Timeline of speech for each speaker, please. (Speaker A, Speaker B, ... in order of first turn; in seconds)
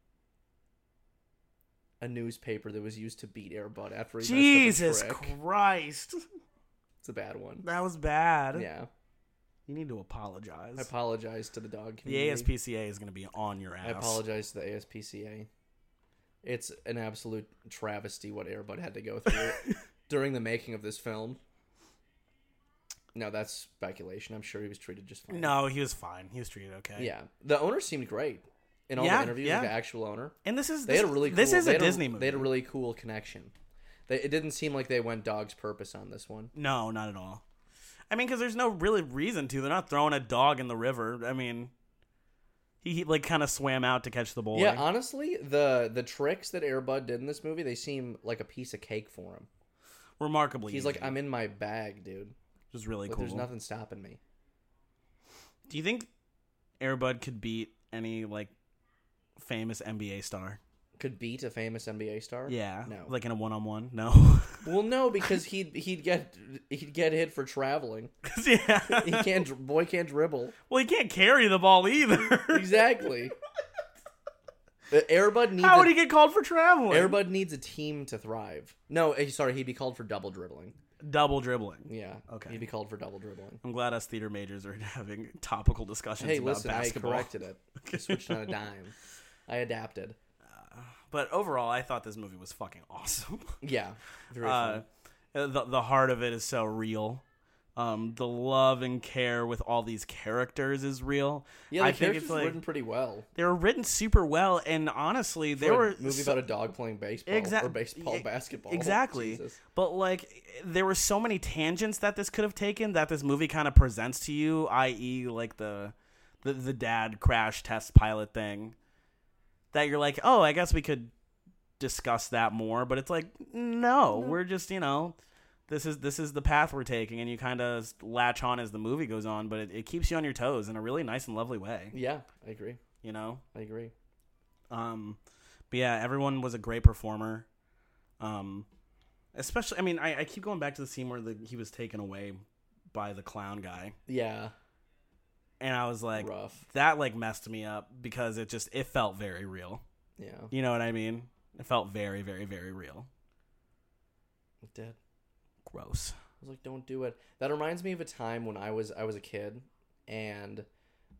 Speaker A: 2.0-5.3, 7.0-7.7, 8.5-8.9, 10.8-12.5, 13.8-15.5, 16.4-21.4, 23.1-25.5, 27.0-33.5, 34.1-36.5, 44.5-49.5, 50.7-52.3, 53.1-54.2, 61.0-63.1, 64.6-68.1, 68.9-70.5, 72.5-73.3, 74.9-75.9, 76.9-80.8, 81.8-83.6, 86.2-88.9, 89.5-90.2, 93.6-94.8, 101.7-103.3, 105.5-109.6, 124.1-124.4, 131.9-132.8, 133.5-133.9, 144.1-144.5, 146.1-146.6, 150.2-150.5, 154.6-155.0, 156.4-160.7
Speaker B: 4.2-6.2, 7.6-8.7, 9.7-10.9, 12.0-14.2, 19.3-19.8, 25.3-27.1, 28.9-29.7, 30.4-32.5, 36.5-37.4, 38.1-41.7, 42.8-44.8, 50.2-51.2, 52.7-53.5, 55.7-56.1, 56.8-58.5, 59.4-60.6, 62.5-64.7, 68.2-69.4, 70.7-72.8, 75.6-77.2, 81.0-82.6, 83.6-87.3, 87.8-88.5, 90.5-93.5, 94.4-97.2, 97.8-102.6, 103.3-106.4, 107.3-118.8, 119.7-121.1, 121.8-125.2, 125.7-131.9, 133.0-133.4, 134.7-135.2, 135.7-137.5, 138.2-138.7, 139.3-143.9, 145.6-149.8, 150.5-153.1, 155.6-156.2